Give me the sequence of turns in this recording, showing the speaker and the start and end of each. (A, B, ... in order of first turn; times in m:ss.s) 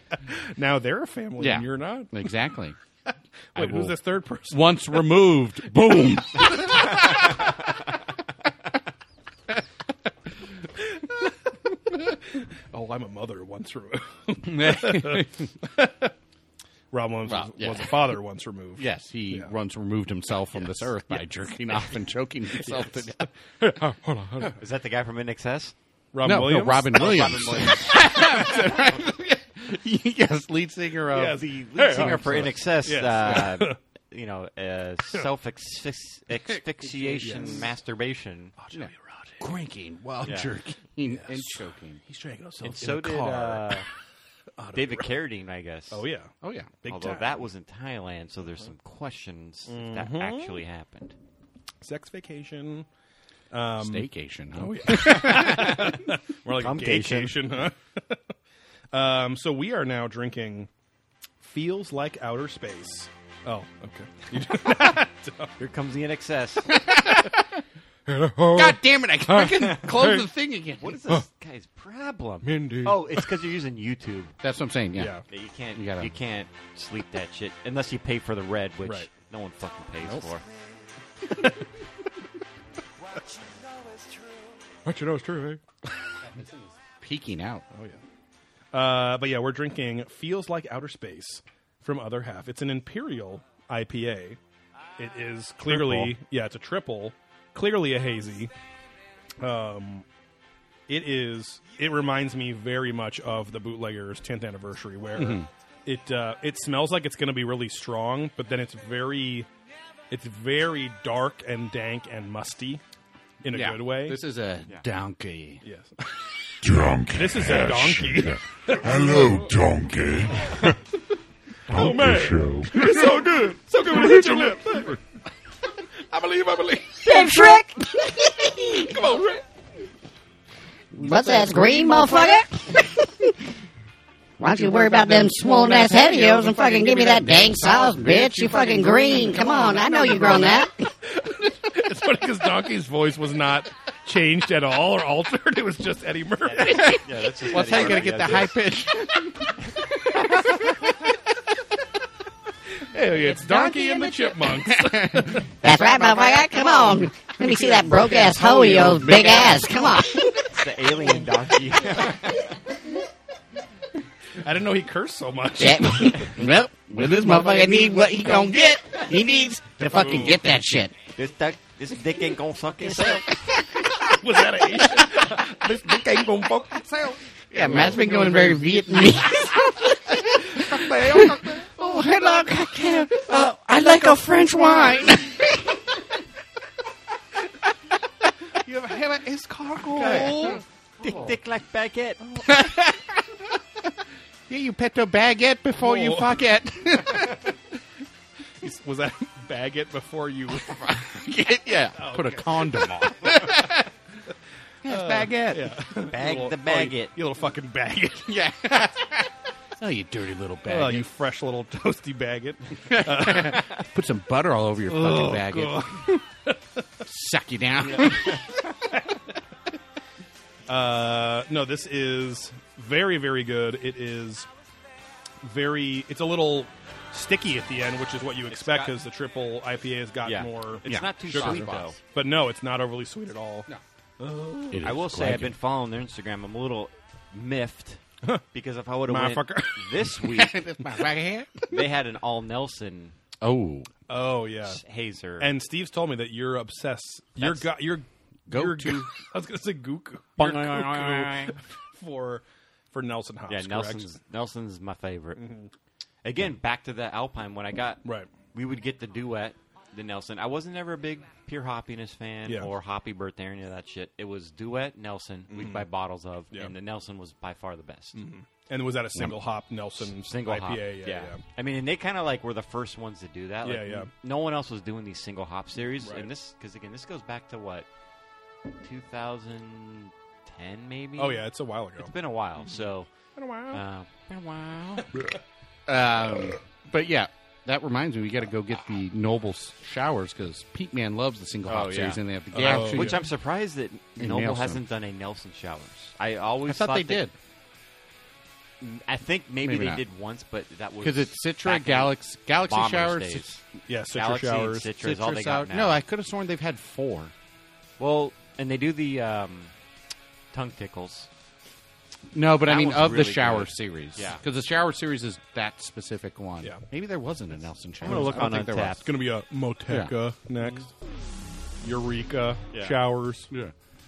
0:00.3-0:02.3 A
0:01.4-0:02.8 B
0:03.5-0:05.1 A
0:03.6-0:04.0 B
0:04.5-0:07.5 B
0:10.8-0:16.1 A
0:14.4-0:15.5 B
0:16.9-0:19.5 A
0:17.3-0:18.2 B
0:18.8-0:24.6 B
0:22.6-0:24.6 A
0:24.6-0:25.8 C
0:26.1-0:28.5 A
0:26.2-0:32.6 B
0:27.0-0:28.0 C
0:31.1-0:33.8 A
0:31.2-0:38.5 C
0:36.8-0:37.6 B
0:37.2-0:37.7 A
0:38.6-0:39.4 A
0:38.7-0:42.0 B
0:40.2-0:40.5 C
0:41.1-0:43.9 A
0:42.6-0:43.9 C
0:44.6-0:45.2 A
0:44.7-0:46.0 C
0:45.9-0:47.4 A
0:46.4-0:46.7 B
0:46.9-0:51.2 C
0:49.7-0:50.6 A
0:51.8-0:52.9 A
0:53.5-0:58.2 A
0:53.8-0:55.9 B
0:55.0-0:56.0 C
0:56.6-0:57.4 C
0:58.9-1:00.7 A
1:01.4-1:05.5 A
1:05.6-1:06.7 C
1:06.7-1:07.6 B
1:08.1-1:10.3 A
1:08.5-1:11.0 B
1:10.8-1:14.4 C
1:12.4-1:13.4 A
1:14.4-1:15.2 B
1:15.0-1:15.2 A
1:15.3-1:20.4 C
1:15.8-1:16.1 B
1:18.8-1:19.1 A
1:21.2-1:21.7 A
1:24.8-1:26.1 A
1:26.2-1:27.6 B
1:27.7-1:28.0 A
1:28.7-1:34.4 A
1:35.0-1:38.5 A
1:35.6-1:36.1 B
1:39.4-1:40.0 A
1:40.9-1:49.5 A
1:45.2-1:45.5 B
1:50.1-1:52.8 A
1:53.4-1:54.2 A
1:53.5-1:55.6 B
1:55.6-1:56.2 A
1:56.6-2:00.8 D
1:57.1-1:59.5 A
2:01.7-2:03.1 D
2:01.7-2:05.0 A
2:05.8-2:07.2 A
2:07.0-2:09.1 E
2:08.9-2:09.4 A
2:10.9-2:13.3 E
2:14.4-2:20.9 E
2:14.5-2:20.7 B
2:21.1-2:28.3 A
2:26.4-2:28.6 C
2:26.7-2:31.2 B
2:32.8-2:35.5 A
2:33.2-2:40.3 B
2:35.6-2:40.5 E
2:40.4-2:42.6 C
2:44.4-2:46.4 A
2:45.6-2:46.4 E
2:45.6-2:51.0 B
2:47.1-2:50.2 E
2:49.8-2:50.4 A
2:51.1-2:53.6 C
2:53.0-2:54.1 B
2:53.9-2:56.8 A
2:54.8-3:05.9 B
2:57.6-2:58.6 A
2:57.7-2:59.1 E
3:00.5-3:01.6 A
3:08.4-3:11.3 B
3:09.8-3:10.6 A
3:10.0-3:12.2 C
3:12.2-3:12.5 A
3:12.4-3:13.9 B
3:14.5-3:17.6 B
3:15.8-3:16.4 A
3:18.6-3:21.0 A
3:20.5-3:23.9 B
3:22.0-3:23.7 A
3:24.8-3:28.5 A
3:24.9-3:25.6 B
3:24.9-3:27.1 C
3:28.3-3:31.1 B
3:30.7-3:33.8 A
3:32.8-3:36.2 B
3:34.9-3:36.6 A
3:37.0-3:38.4 B
3:37.9-3:38.5 C
3:38.0-3:39.2 A
3:40.7-3:44.5 A
3:45.4-3:53.7 A
3:48.5-3:48.9 C
3:50.2-3:52.0 C
3:50.8-3:52.0 B
3:54.2-3:54.8 A
3:54.7-3:55.6 B
3:54.8-3:58.0 C
3:58.5-4:00.6 C
3:59.1-4:00.2 A
4:00.3-4:01.8 B
4:01.7-4:03.2 C
4:03.4-4:03.9 B
4:04.1-4:04.8 A
4:04.6-4:05.5 C
4:05.4-4:14.1 A
4:07.4-4:07.7 C
4:08.5-4:09.1 B
4:10.4-4:11.6 C
4:13.5-4:15.5 C
4:15.4-4:15.7 A
4:16.2-4:28.2 C
4:18.0-4:18.3 A
4:25.5-4:25.9 A
4:28.2-4:31.4 A
4:30.2-4:37.9 C
4:33.6-4:34.1 A
4:36.0-4:36.3 A
4:38.8-4:41.4 C
4:41.2-4:42.1 A
4:42.0-4:43.1 C
4:43.4-4:43.8 A
4:43.7-4:45.1 C
4:45.9-4:53.2 B
4:51.7-4:57.2 C
4:52.5-4:53.3 A
4:54.2-4:54.8 B
4:56.7-4:57.3 B
4:58.8-5:06.0 C
4:59.6-5:00.0 B
5:01.0-5:03.5 B
5:03.9-5:04.9 A
5:05.0-5:07.3 B
5:08.0-5:09.7 C
5:10.5-5:11.3 C
5:12.3-5:19.0 B
5:12.6-5:14.4 C
5:18.0-5:19.0 C
5:18.0-5:20.9 A
5:19.9-5:20.1 B
5:21.8-5:23.5 A
5:22.7-5:23.0 C